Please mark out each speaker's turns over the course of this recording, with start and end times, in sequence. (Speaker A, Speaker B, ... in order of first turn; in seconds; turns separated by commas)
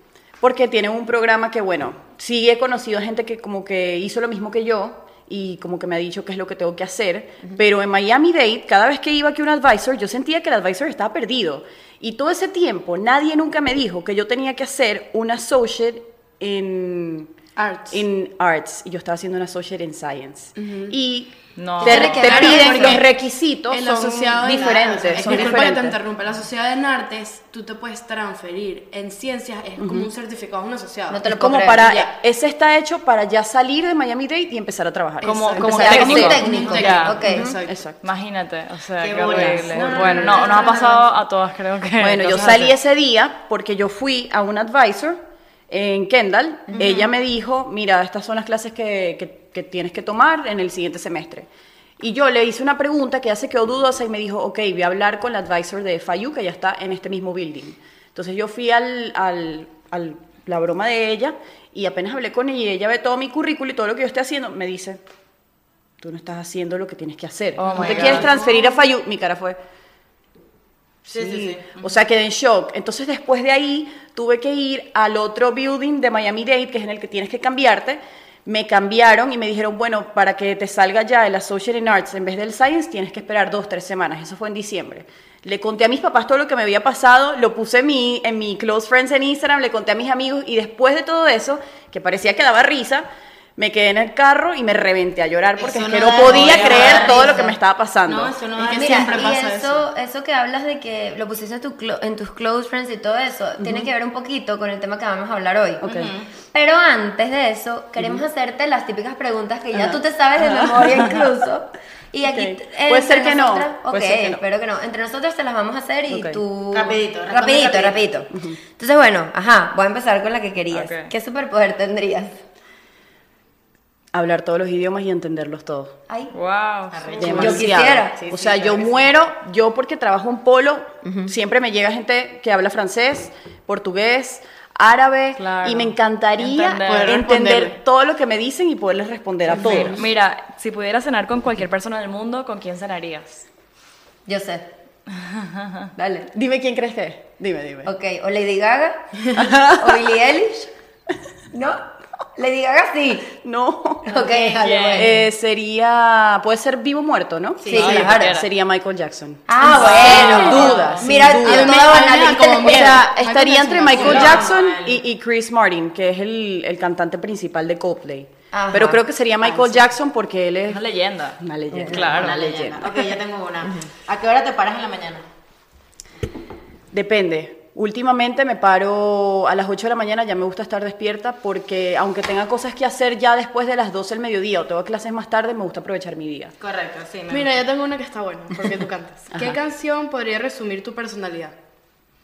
Speaker A: 0.4-17.3, Speaker B: 17.6-18.0, Speaker A: 17.9-26.0, Speaker B: 20.6-20.9, Speaker C: 21.6-22.7, Speaker D: 21.8-23.0, Speaker B: 22.1-23.0, Speaker B: 23.7-32.1, Speaker E: 24.9-25.3, Speaker A: 29.8-30.1, Speaker D: 31.1-31.9, Speaker A: 31.2-36.4, Speaker C: 35.2-37.3, Speaker B: 35.2-37.8, Speaker D: 35.6-37.5, Speaker E: 36.4-36.9, Speaker A: 37.4-38.0, Speaker C: 38.0-42.7, Speaker E: 39.0-41.0, Speaker B: 39.3-40.7, Speaker A: 42.0-51.5, Speaker A: 52.0-65.0, Speaker A: 66.0-69.6, Speaker C: 67.6-68.0, Speaker E: 67.7-68.3, Speaker A: 71.0-98.3, Speaker E: 71.1-72.0, Speaker E: 95.6-97.5, Speaker D: 96.9-97.5, Speaker E: 98.0-99.4, Speaker B: 98.6-99.8, Speaker D: 98.7-105.8, Speaker A: 103.6-103.9, Speaker A: 105.8-106.1, Speaker E: 105.8-106.3, Speaker D: 106.5-122.4, Speaker A: 108.0-108.2, Speaker A: 109.7-111.2, Speaker A: 112.2-114.4, Speaker A: 116.1-116.4, Speaker E: 116.7-118.0, Speaker A: 118.3-118.6, Speaker C: 120.7-121.1, Speaker A: 124.1-126.0, Speaker C: 126.3-127.0, Speaker E: 126.9-129.1, Speaker A: 127.2-140.0, Speaker D: 127.2-128.2, Speaker D: 131.0-131.3, Speaker C: 135.4-137.3, Speaker B: 136.8-137.7, Speaker B: 139.6-140.1, Speaker C: 139.6-143.4, Speaker D: 144.2-144.7, Speaker D: 145.9-146.3, Speaker A: 146.3-147.9, Speaker D: 147.8-150.7, Speaker A: 149.3-150.3, Speaker D: 151.5-151.8, Speaker D: 152.3-153.3, Speaker A: 153.3-154.2, Speaker D: 154.1-155.0, Speaker E: 154.1-155.1, Speaker C: 154.6-155.2, Speaker A: 154.9-162.1, Speaker E: 157.6-158.0, Speaker D: 157.7-158.4, Speaker C: 157.7-158.5, Speaker D: 159.5-163.0, Speaker B: 159.6-164.5, Speaker E: 160.0-160.4, Speaker C: 160.1-161.0, Speaker A: 162.6-172.8, Speaker E: 163.9-165.0, Speaker D: 168.5-169.8, Speaker C: 170.7-172.4, Speaker D: 171.7-172.1, Speaker E: 172.1-175.2, Speaker A: 176.9-186.5, Speaker E: 186.6-187.7, Speaker B: 187.3-191.5, Speaker A: 189.3-189.6